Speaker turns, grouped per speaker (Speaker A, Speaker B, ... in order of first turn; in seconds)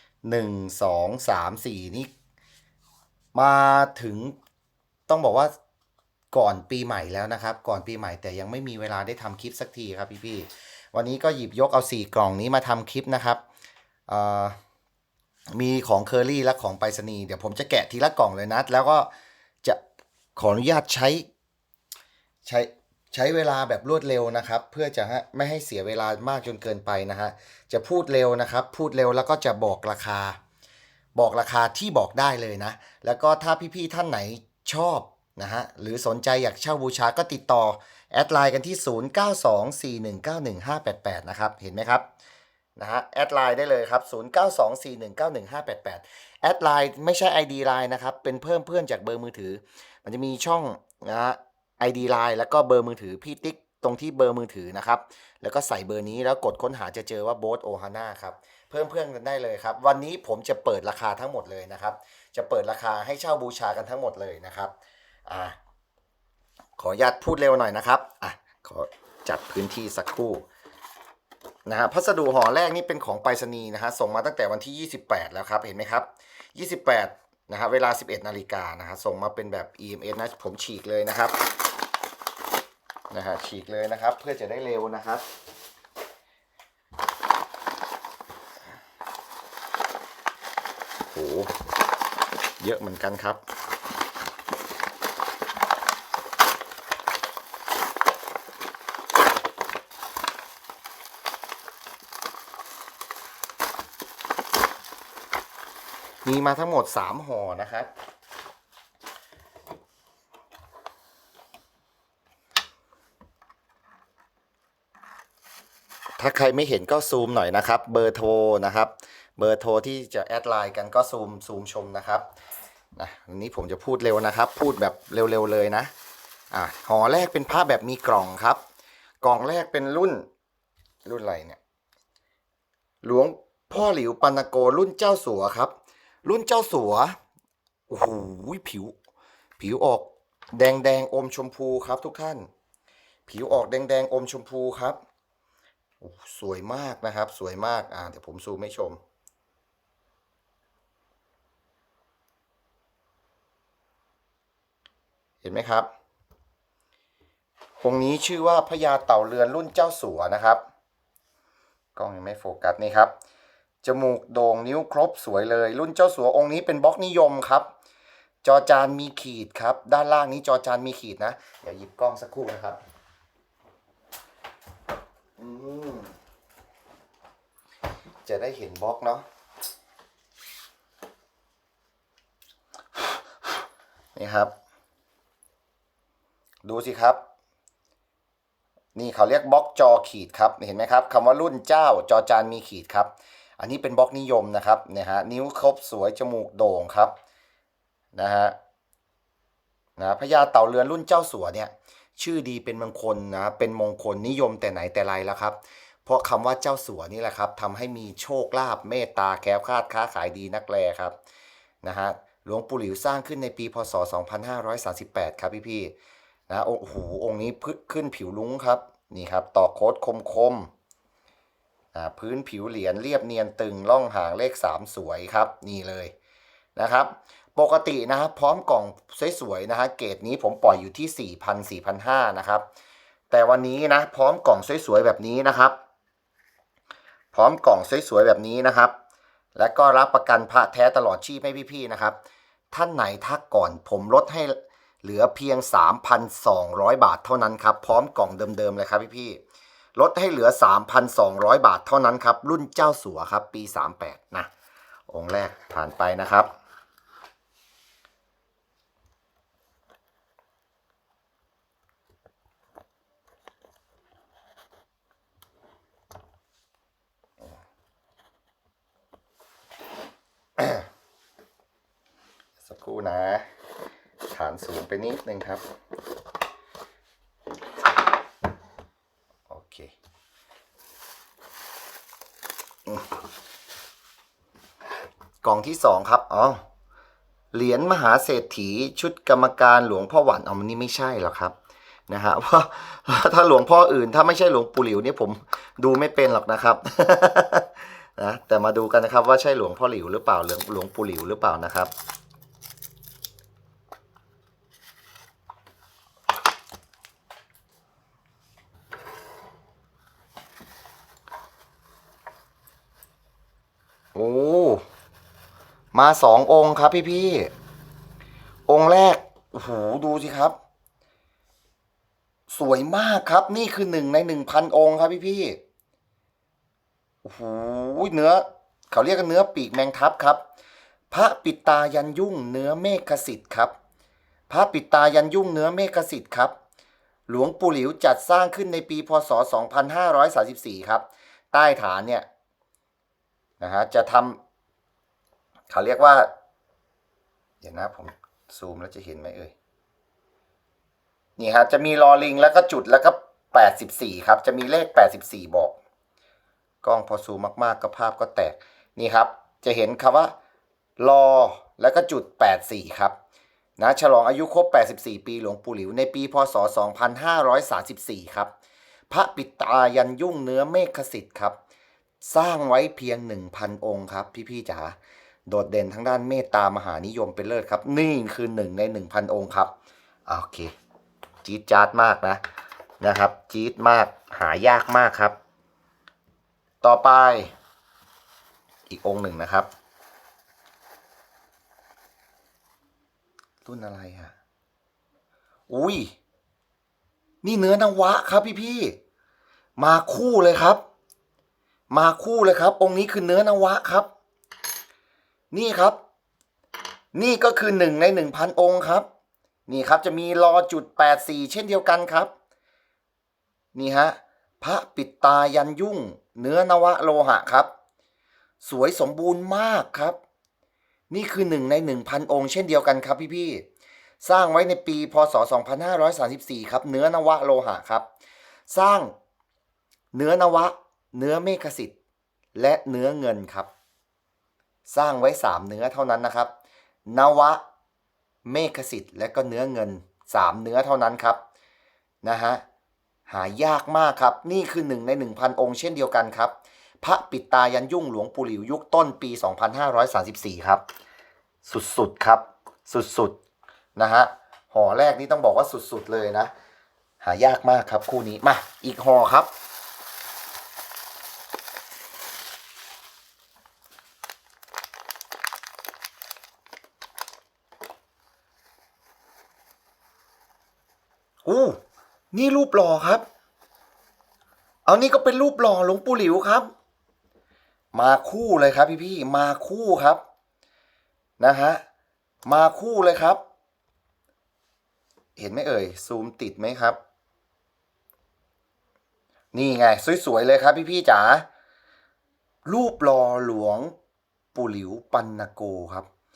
Speaker A: 0.2-2.1, 3.3-4.3, 5.1-5.5, 6.3-13.4, 14.1-14.6, 15.5-19.1, 20.4-21.3, 22.4-30.4, 31.1-42.0, 42.8-64.7, 65.2-65.6, 66.8-70.4, 71.7-81.4, 83.1-85.2, 91.1-91.5, 92.6-93.4, 106.2-107.9, 116.2-122.3, 123.0-125.9, 126.5-128.6, 129.2-130.2, 131.0-131.6, 133.0-135.7, 136.2-137.2, 137.9-138.9, 139.6-142.5, 143.3-145.0, 146.0-149.0, 155.4-155.9, 157.8-160.6, 161.9-163.1, 163.8-167.7, 168.4-172.8, 175.4-176.1, 178.2-179.2, 184.2-184.5, 186.6-187.2, 188.9-197.1, 198.1-198.5, 200.0-211.2, 211.8-215.9, 216.5-220.7, 221.9-226.1, 226.8-232.6, 233.3-235.8, 237.3-238.9, 239.6-242.2, 242.7-249.4, 249.9-254.5, 255.1-256.5, 270.6-270.8, 272.6-273.5, 274.3-275.6, 279.5-279.9, 285.4-286.6, 287.5-291.5, 292.1-301.9, 314.1-314.8, 315.9-317.5, 318.7-320.6, 322.5-325.6, 327.2-330.4, 331.1-333.7, 334.5-336.5, 337.3-342.2, 343.6-344.4, 345.7-346.3, 347.6-349.5, 351.4-355.7, 356.8-360.3, 361.0-363.1, 363.8-368.5, 369.1-371.6, 372.2-374.9, 375.5-379.7, 380.2-380.7, 381.4-382.4, 383.0-385.4, 386.8-387.5, 388.9-389.7, 393.6-394.3, 395.7-396.1, 397.4-399.0, 399.8-400.8, 401.9-404.1, 405.5-406.0, 407.1-409.1, 409.7-412.3, 413.7-417.7, 418.6-420.2, 421.1-423.6, 424.2-428.1, 428.7-429.1, 430.1-431.9, 432.5-433.7, 434.9-436.5, 437.1-437.6, 438.4-441.4, 442.2-442.6, 443.3-450.8, 451.6-453.4, 453.9-456.5, 457.2-459.5, 471.4-471.8, 472.3-473.2, 474.8-476.7, 477.9-480.2, 481.4-481.8, 482.4-483.4, 485.4-487.0, 489.5-491.4, 492.6-493.9, 494.5-496.1